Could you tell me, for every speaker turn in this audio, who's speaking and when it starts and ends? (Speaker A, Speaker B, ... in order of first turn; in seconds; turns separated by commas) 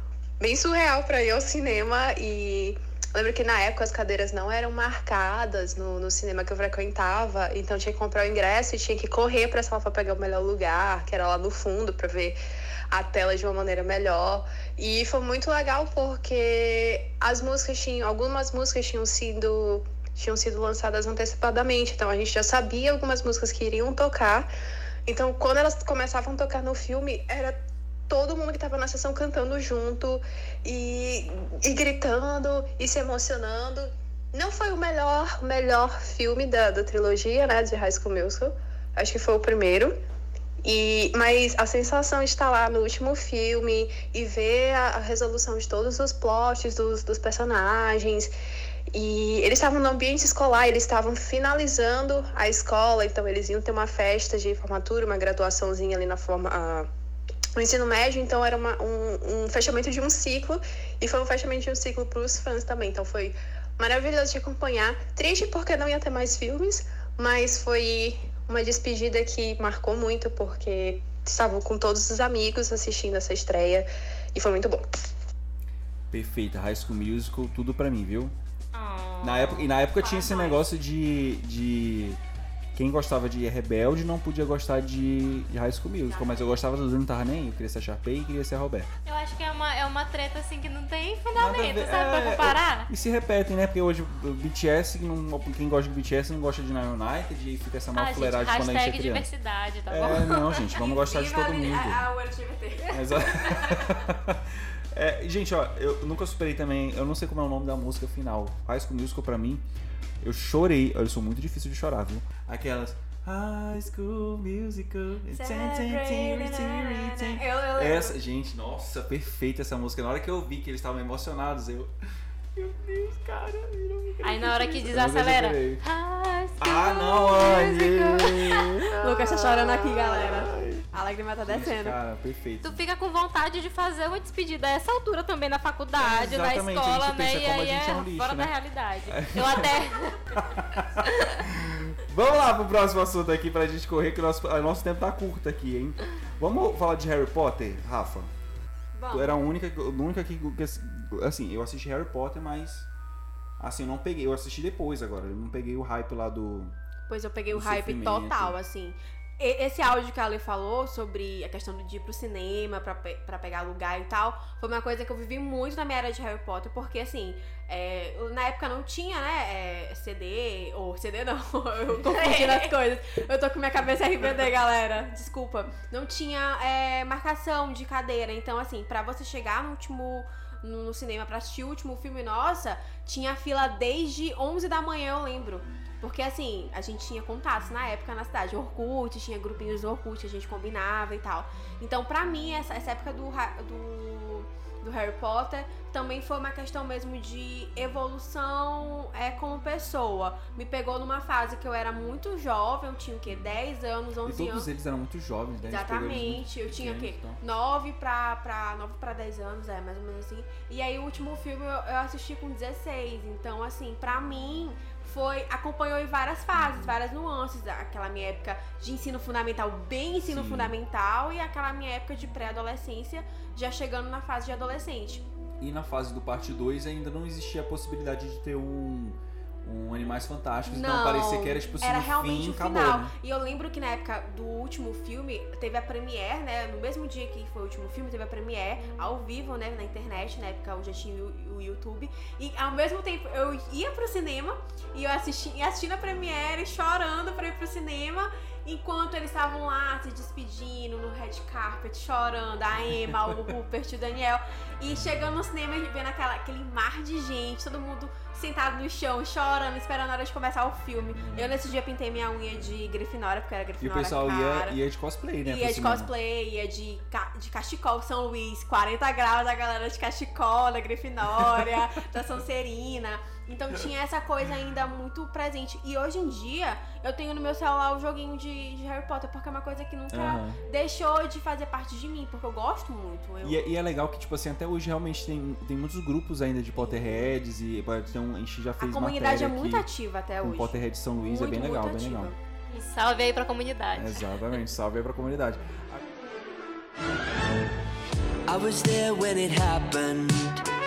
Speaker A: 0.4-12.4, Speaker A: 12.9-24.5, Speaker A: 25.1-39.9, Speaker A: 40.6-48.3, Speaker A: 48.9-56.9, Speaker A: 57.5-74.8, Speaker B: 76.1-78.3, Speaker C: 78.7-80.2, Speaker B: 79.2-82.2, Speaker D: 80.1-80.6, Speaker B: 82.7-88.9, Speaker D: 86.1-86.5, Speaker C: 89.0-92.9, Speaker B: 91.3-99.3, Speaker C: 98.0-100.7, Speaker B: 99.9-102.0, Speaker D: 100.7-104.0, Speaker B: 102.9-109.6, Speaker B: 110.2-121.9, Speaker D: 115.3-118.2, Speaker B: 122.5-125.8, Speaker C: 124.2-129.4, Speaker B: 126.6-130.8, Speaker D: 129.0-131.9, Speaker B: 131.4-132.8, Speaker C: 132.6-140.3, Speaker B: 135.9-138.5, Speaker B: 139.1-139.7, Speaker B: 140.3-148.3, Speaker C: 141.0-141.4, Speaker D: 148.9-149.3, Speaker B: 149.1-152.9, Speaker B: 153.6-156.7, Speaker D: 157.1-204.7, Speaker B: 157.5-158.6, Speaker C: 172.1-172.7, Speaker B: 204.2-207.4, Speaker D: 205.6-225.2, Speaker B: 216.5-216.9, Speaker B: 220.3-220.8, Speaker B: 225.6-233.1, Speaker D: 230.7-264.8, Speaker B: 253.1-253.5, Speaker B: 261.2-261.5, Speaker B: 263.8-266.1, Speaker D: 265.4-283.6, Speaker B: 280.1-280.6, Speaker B: 283.4-289.9, Speaker D: 286.8-287.2, Speaker D: 288.8-292.4, Speaker B: 290.4-292.3, Speaker C: 292.7-294.2, Speaker B: 293.9-296.0, Speaker E: 298.5-300.6